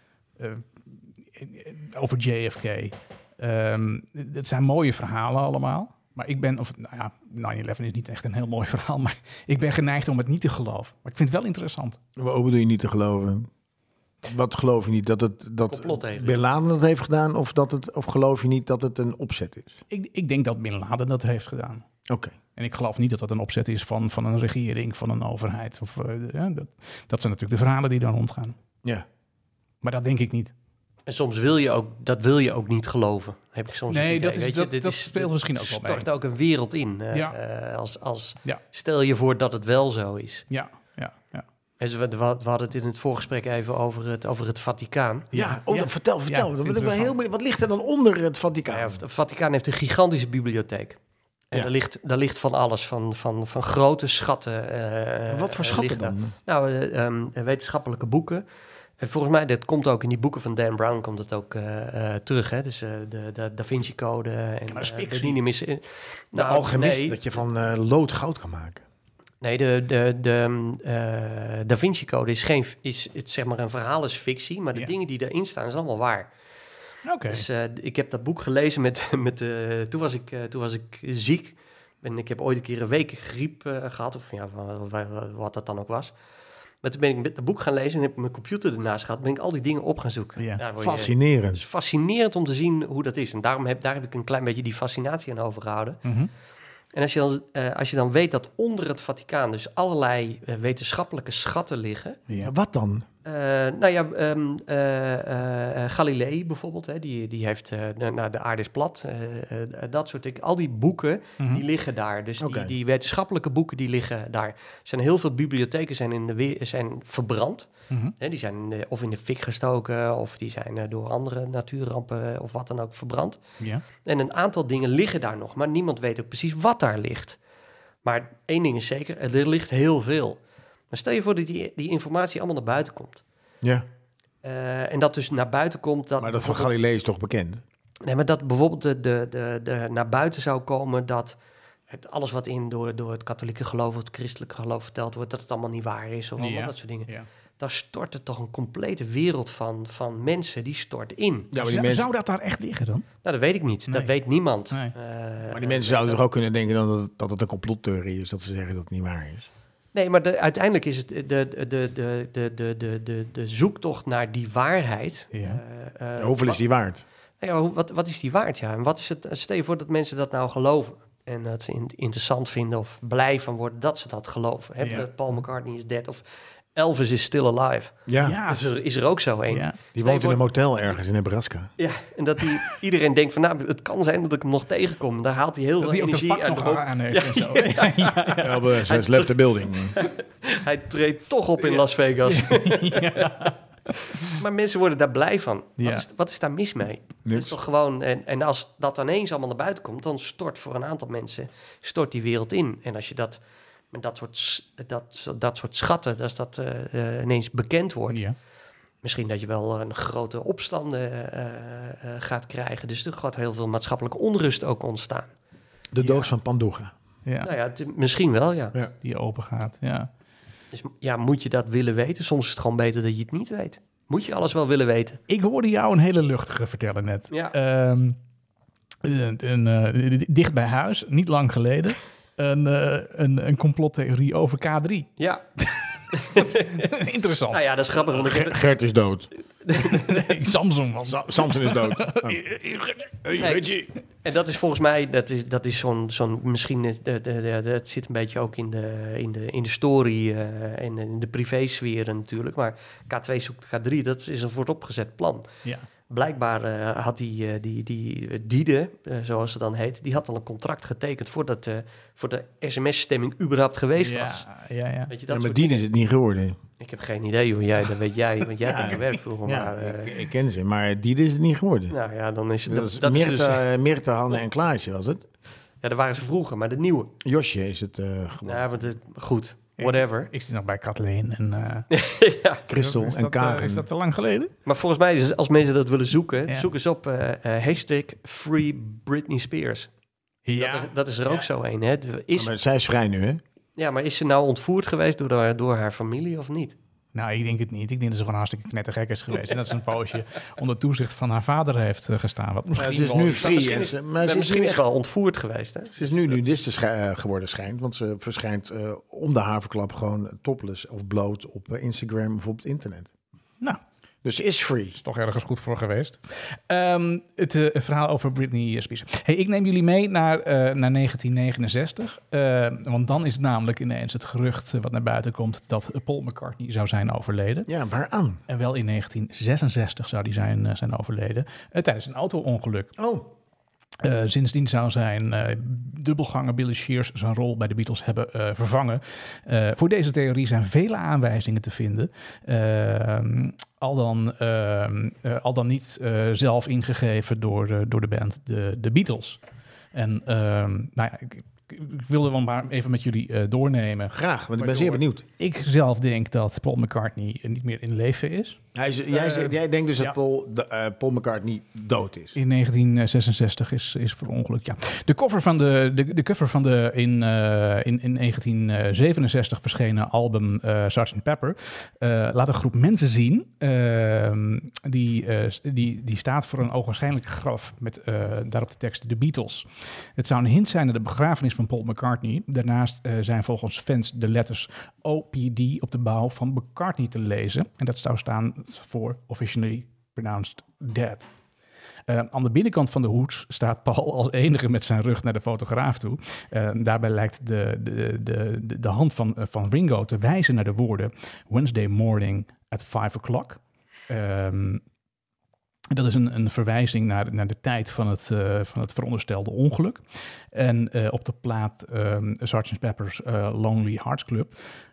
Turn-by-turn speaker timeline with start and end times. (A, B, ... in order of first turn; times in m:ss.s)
0:00.4-0:12.0 A
0:12.2-0:13.5 B
0:14.2-0:19.8 B
0:15.7-0:16.4 C
0:19.9-0:21.8 A
0:22.1-0:22.4 B
0:22.6-0:28.5 A
0:29.8-0:30.5 A
0:31.0-0:40.4 C
0:33.9-0:36.0 A
0:40.5-0:41.4 A
0:41.8-0:45.3 C
0:45.3-0:47.1 A
0:45.3-0:49.0 B
0:48.7-0:51.0 C
0:51.5-0:58.4 C
0:55.3-0:56.3 B
0:59.0-1:07.2 C
1:04.7-1:05.4 A
1:06.3-1:08.8 B
1:09.4-1:16.3 C
1:17.0-1:17.4 A
1:17.3-1:26.1 C
1:26.8-1:36.0 C
1:30.8-1:31.6 B
1:36.0-1:36.3 A
1:36.9-1:42.2 C
1:42.4-1:43.0 B
1:43.2-2:03.4 C
1:52.4-1:52.7 B
2:04.0-2:07.4 C
2:08.0-2:10.4 C
2:10.9-2:13.2 C
2:14.4-2:16.7 C
2:16.2-2:17.6 B
2:18.0-2:21.4 C
2:21.9-2:31.5 C
2:26.4-2:27.3 A
2:31.5-2:32.1 B
2:31.6-2:33.0 A
2:33.2-2:36.2 C
2:35.5-2:39.5 B
2:39.9-2:46.6 C
2:45.3-2:45.6 A
2:46.2-2:47.0 B
2:47.4-2:56.2 C
2:54.8-2:55.1 A
2:56.7-3:00.4 C
2:58.1-2:58.4 B
2:58.2-2:58.6 A
2:59.5-2:59.8 A
2:59.9-3:01.7 B
3:01.8-3:13.5 C
3:05.8-3:08.7 A
3:08.4-3:10.0 B
3:11.6-3:13.6 A
3:14.1-3:23.4 C
3:14.1-3:14.4 A
3:15.8-3:16.0 A
3:17.2-3:17.6 B
3:23.9-3:28.2 C
3:28.1-3:28.3 A
3:29.0-3:35.3 C
3:35.9-3:36.9 B
3:36.0-3:36.3 A
3:37.2-3:37.5 A
3:37.4-3:38.8 C
3:39.0-3:40.1 A
3:40.7-3:45.2 C
3:45.3-3:48.2 A
3:49.0-3:55.1 A
3:55.2-3:55.4 C
3:55.6-3:57.6 A
3:56.1-3:56.9 C
3:57.5-3:58.6 C
3:58.1-3:59.3 B
3:59.6-4:00.3 C
3:59.7-4:03.2 A
4:01.0-4:02.4 B
4:03.2-4:03.9 B
4:03.4-4:03.6 C
4:04.2-4:15.5 C
4:16.1-4:24.4 C
4:24.0-4:25.1 A
4:25.1-4:25.8 C
4:25.3-4:26.6 B
4:26.8-4:30.1 C
4:28.6-4:32.0 B
4:31.9-4:33.6 C
4:32.6-4:35.2 B
4:35.8-4:37.1 C
4:37.2-4:38.7 B
4:38.4-4:40.3 C
4:39.8-4:41.9 A
4:41.9-4:42.6 C
4:42.7-4:43.8 B
4:42.7-4:44.5 A
4:44.6-4:49.9 C
4:50.5-4:51.4 A
4:50.6-4:52.5 C
4:52.3-4:53.4 B
4:53.8-4:56.8 C
4:57.1-5:03.5 A
5:02.8-5:04.8 B
5:03.3-5:06.4 C
5:05.9-5:13.1 B
5:14.2-5:15.0 B
5:15.0-5:27.7 A
5:27.7-5:28.4 B
5:28.5-5:32.9 A
5:33.0-5:33.3 B
5:34.0-5:49.4 A
5:49.9-6:00.1 A
5:54.1-5:55.2 B
5:58.7-6:02.4 B
6:02.3-6:19.6 A
6:20.2-6:31.3 A
6:32.1-6:44.8 A
6:45.9-6:50.0 A
6:50.5-6:54.5 A